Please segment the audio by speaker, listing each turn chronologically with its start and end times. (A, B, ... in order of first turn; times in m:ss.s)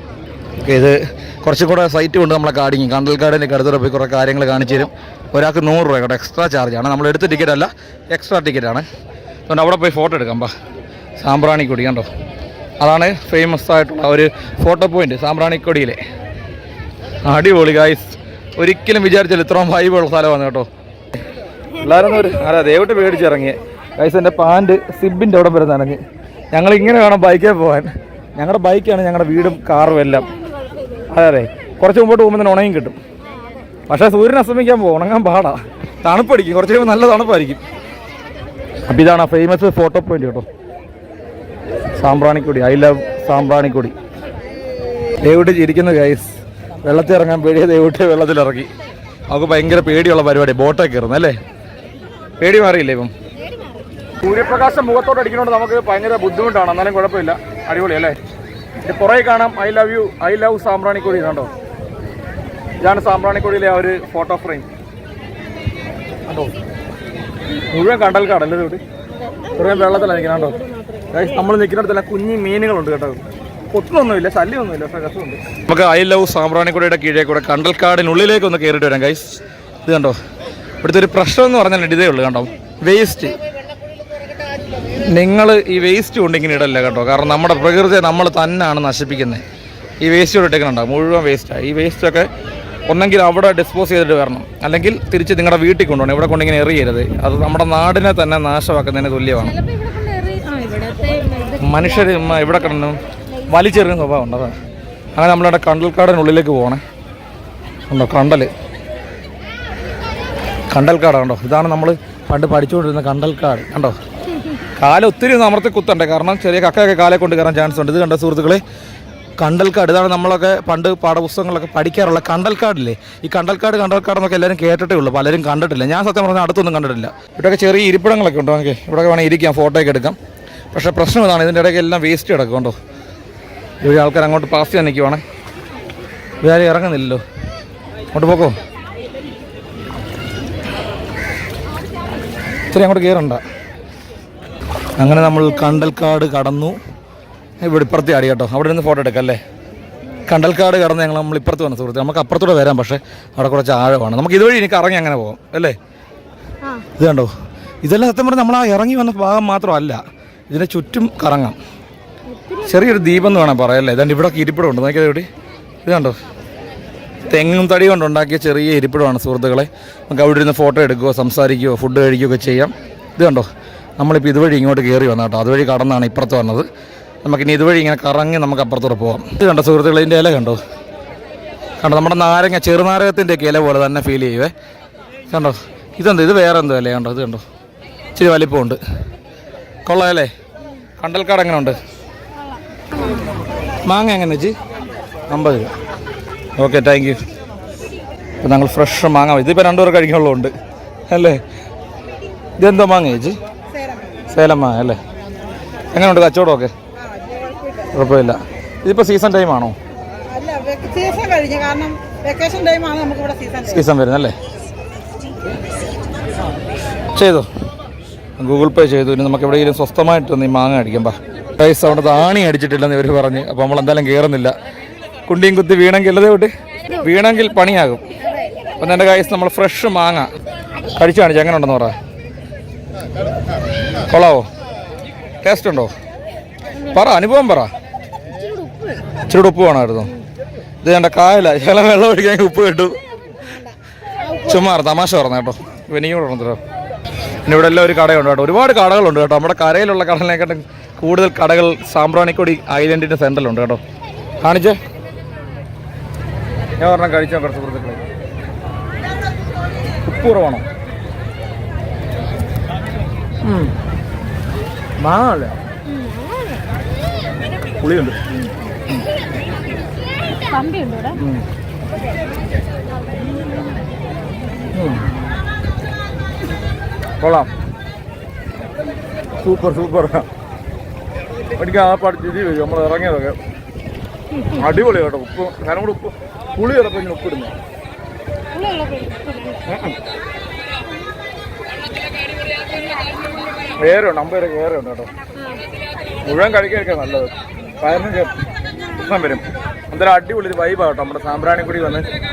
0:00.6-0:08.8 A
0:09.5-0:10.5 A
0:11.2-0:12.1 A
0:12.8-0:16.0 A
0:17.2-0:21.2 A
0:21.8-0:26.0 A
0:21.8-0:22.5 B
0:26.5-0:30.3 A
0:30.2-0:31.0 B
0:31.1-0:33.0 A
0:33.2-0:33.7 B
0:33.9-0:37.6 A
0:38.9-0:40.4 A
0:42.0-0:43.9 A
0:45.2-0:48.7 A
0:49.3-0:51.4 A
0:52.4-0:53.1 A
0:53.4-0:53.8 B
0:54.2-0:58.2 A
0:58.8-1:01.5 A
1:02.8-1:04.7 A
1:06.3-1:06.5 A
1:07.7-1:08.8 A
1:09.1-1:11.4 B
1:09.5-1:10.6 A
1:11.1-1:20.2 A
1:20.8-1:23.4 A
1:25.1-1:29.4 A
1:30.0-1:32.3 A
1:32.9-1:39.5 A
1:39.4-1:43.8 B
1:41.6-1:44.6 A
1:45.2-1:46.8 A
1:47.9-1:48.5 A
1:50.7-1:54.0 A
1:54.8-1:58.6 A
1:59.4-2:10.2 A
2:10.7-2:12.7 A
2:13.8-2:15.2 A
2:16.4-2:17.2 A
2:18.1-2:18.5 A
2:22.7-2:23.4 A
2:25.0-2:26.8 A
2:25.6-2:25.9 B
2:27.6-2:29.4 A
2:30.3-2:35.8 A
2:36.6-2:36.9 B
2:37.0-2:37.3 A
2:37.8-2:41.6 A
2:42.3-2:43.5 B
2:42.6-2:45.3 A
2:45.8-2:46.2 A
2:47.3-2:53.5 A
2:54.0-2:56.6 A
2:57.2-3:00.6 A
3:01.8-3:04.5 A
3:05.3-3:07.4 A
3:08.2-3:08.8 A
3:09.8-3:10.3 A
3:11.0-3:11.8 A
3:12.4-3:13.4 B
3:13.8-3:14.6 A
3:15.3-3:15.7 A
3:16.6-3:17.2 A
3:18.4-3:20.5 A
3:21.1-3:21.4 A
3:22.6-3:23.4 A
3:23.7-3:24.2 B
3:24.3-3:25.0 A
3:25.9-3:26.7 A
3:27.0-3:27.9 B
3:27.9-3:29.8 A
3:30.3-3:33.8 B
3:33.6-3:34.3 A
3:37.1-3:37.5 A
3:38.4-3:44.5 A
3:45.3-3:48.0 A
3:48.2-3:48.5 B
3:48.8-3:50.3 A
3:51.0-3:51.9 A
3:54.1-3:54.4 A
3:55.4-3:55.9 A
3:56.7-3:57.0 B
3:56.9-3:57.7 A
3:58.3-3:59.0 B
3:59.3-4:00.1 A
4:00.8-4:03.0 A
4:04.2-4:04.6 B
4:04.4-4:06.6 A
4:07.4-4:13.8 A
4:14.4-4:14.8 A
4:16.8-4:18.0 A
4:20.0-4:20.6 A
4:23.4-4:23.7 A
4:25.0-4:25.6 A
4:25.8-4:26.7 B
4:27.8-4:28.2 A
4:30.4-4:31.2 B
4:31.1-4:31.4 A
4:34.7-4:35.1 A
4:37.2-4:37.5 A
4:39.4-4:40.3 A
4:41.6-4:43.4 A
4:44.3-4:44.6 B
4:44.5-4:47.5 A
4:48.5-4:49.7 B
4:49.7-4:50.0 A
4:53.8-4:55.1 A
4:56.2-4:58.3 A
4:59.0-5:02.0 A